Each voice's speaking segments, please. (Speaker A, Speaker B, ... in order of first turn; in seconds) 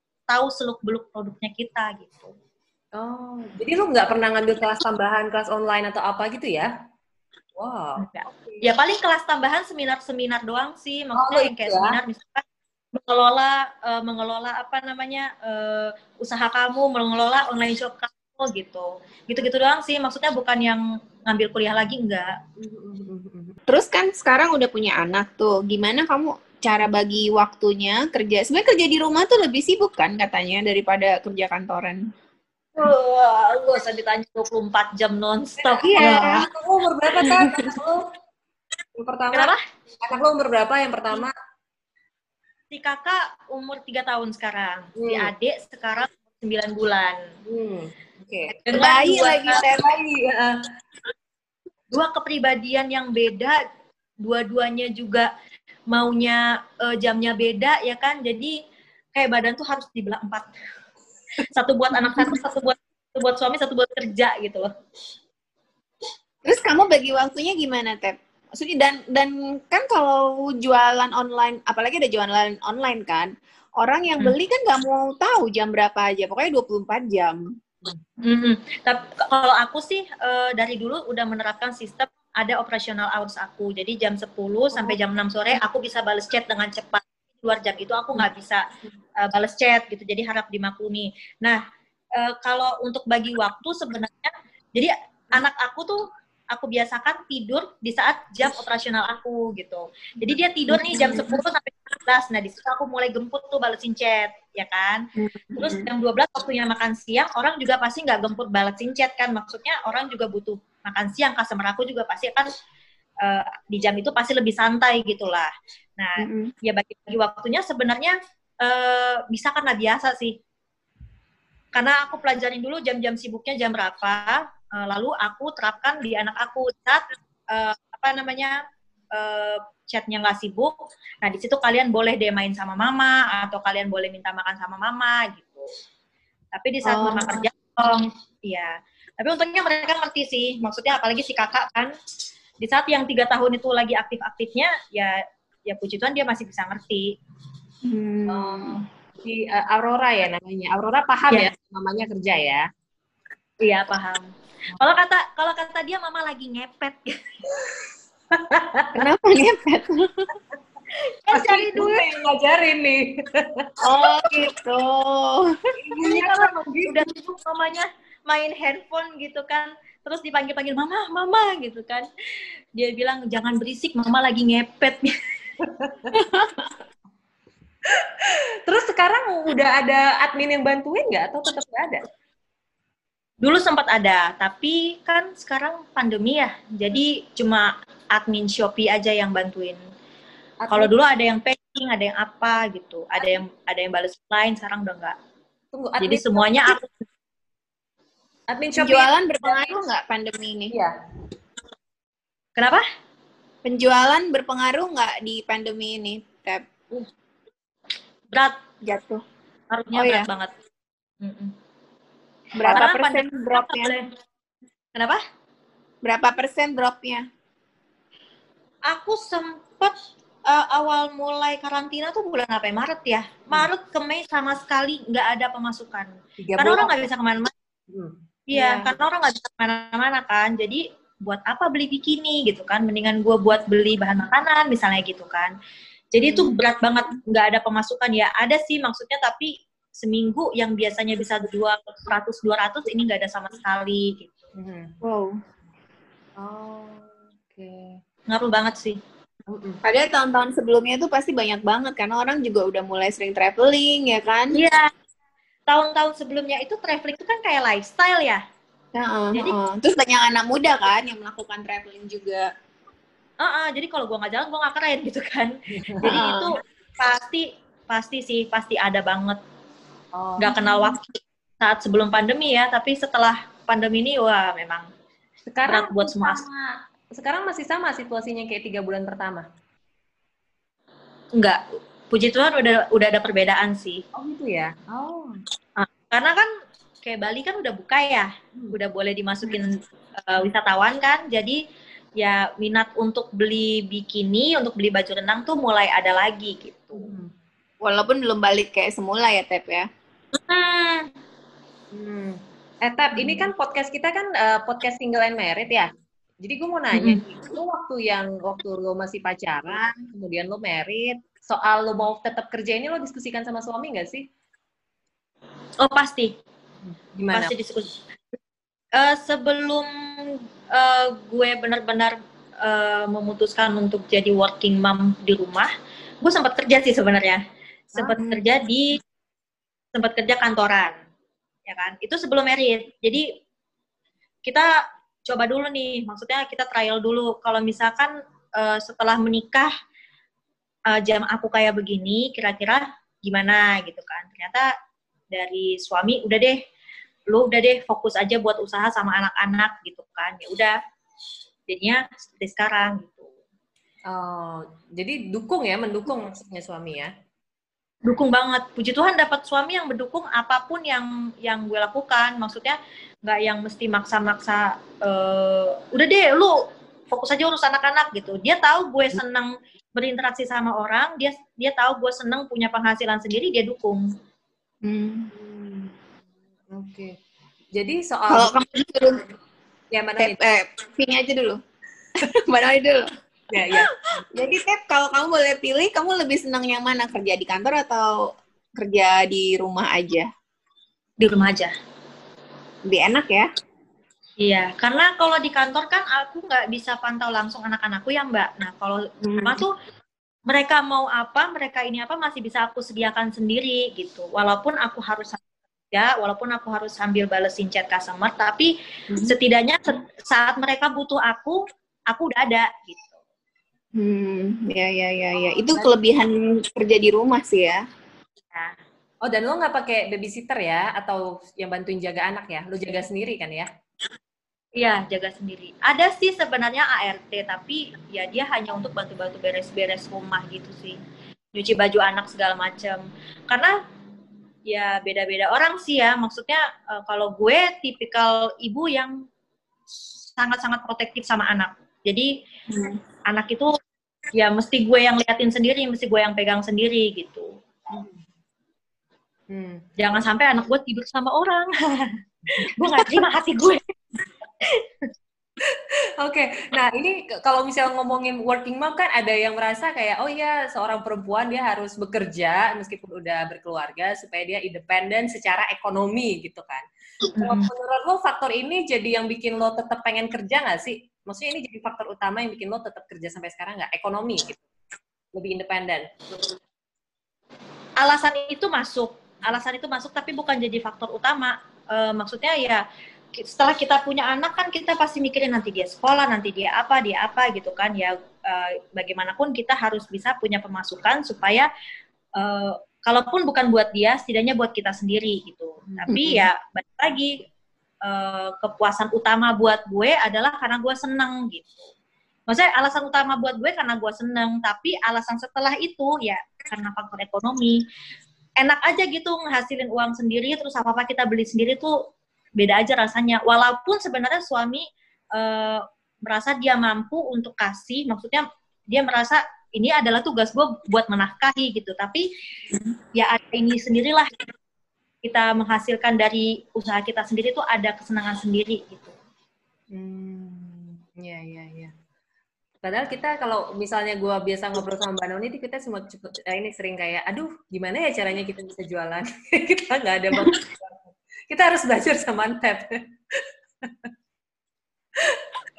Speaker A: 0.3-2.3, 8.0-12.4, 12.9-22.3, 32.8-36.4, 39.3-39.6, 42.7-47.2, 48.7-49.6, 51.9-53.6, 54.2-55.3, 55.9-58.6, 59.1-60.5, 61.5-64.7, 78.2-88.6, 89.2-91.6, 92.2-105.0, 105.6-112.5, 113.2-120.4, 121.7-128.6, 129.1-130.7, 131.2-135.7, 136.5-141.9, 142.6-147.1, 153.6-157.2, 161.2-162.1, 166.0-172.1, 172.7-175.1, 183.4-189.8, 190.7-195.2, 196.0-196.9, 202.6-202.8, 209.7-210.5, 211.2-211.5, 212.7-214.1, 214.9-215.2, 218.9-219.9, 220.5-227.5, 228.5-235.5, 236.1-244.4, 248.3-249.0, 254.5-254.9, 255.7-258.4, 263.4-269.4, 270.4-274.9, 275.6-276.4, 281.4-284.0, 285.8-286.5, 287.0-291.6, 292.2-297.1, 300.4-301.1, 306.9-307.2, 315.8-316.3, 317.3-317.9, 318.9-327.4, 327.9-329.0, 329.9-330.9, 331.7-333.3, 334.4-334.7, 335.3-339.7, 340.9-344.7, 345.3-346.6, 347.3-350.7, 351.7-353.3, 358.1-374.1, 391.2-391.7, 394.4-399.7, 400.5-408.7, 409.2-411.6, 412.1-413.2, 424.8-431.0, 431.5-433.7, 434.7-439.1, 440.4-442.3, 443.3-443.8, 444.3-447.5, 450.0-452.1, 452.6-453.9, 454.6-455.1, 467.3-467.7, 478.0-482.8, 483.4-491.7, 492.4-497.4, 498.0-501.9, 502.5-507.8, 508.6-512.0, 512.6-522.2, 523.1-524.3, 525.2-529.1
Speaker B: 3.0-6.7, 7.5-8.6, 11.2-12.0, 22.6-23.6, 35.6-38.0, 39.0-39.5, 40.0-41.3, 45.0-45.3, 47.5-48.6, 49.8-50.6, 148.3-152.7, 158.3-159.0, 161.3-163.7, 165.8-167.1, 175.6-176.1, 177.8-182.0, 190.6-190.9, 195.7-196.8, 198.5-199.7, 226.4-227.0, 244.6-244.9, 246.4-248.0, 249.5-249.8, 265.9-266.1, 270.1-270.6, 275.5-279.4, 284.1-285.4, 296.9-297.3, 301.9-305.9, 306.4-314.2, 316.9-317.5, 354.1-357.1, 375.3-375.9, 376.7-377.1, 377.7-378.5, 379.9-380.4, 383.5-384.2, 419.2-423.7, 449.5-449.8, 455.7-466.8, 467.4-474.6, 475.3-476.5, 529.9-531.9, 532.8-543.0
Speaker C: 23.7-32.0, 35.8-36.5, 37.2-37.6, 48.5-50.0, 66.4-77.4, 100.7-101.4, 105.2-105.9, 116.2-116.5, 136.8-137.4, 147.8-148.8, 158.9-160.3, 163.8-165.5, 176.1-176.7, 198.8-200.7, 203.6-206.6, 208.8-209.2, 209.9-210.3, 212.5-213.9, 216.0-217.2, 228.5-228.9, 245.0-245.3, 249.8-254.6, 258.9-262.5, 266.0-266.5, 297.8-299.9, 328.0-328.4, 374.8-375.3, 378.3-379.2, 380.2-381.6, 382.2-383.1, 383.7-390.3, 392.9-393.5, 399.2-399.6, 413.9-417.8, 442.7-443.0, 496.1-496.4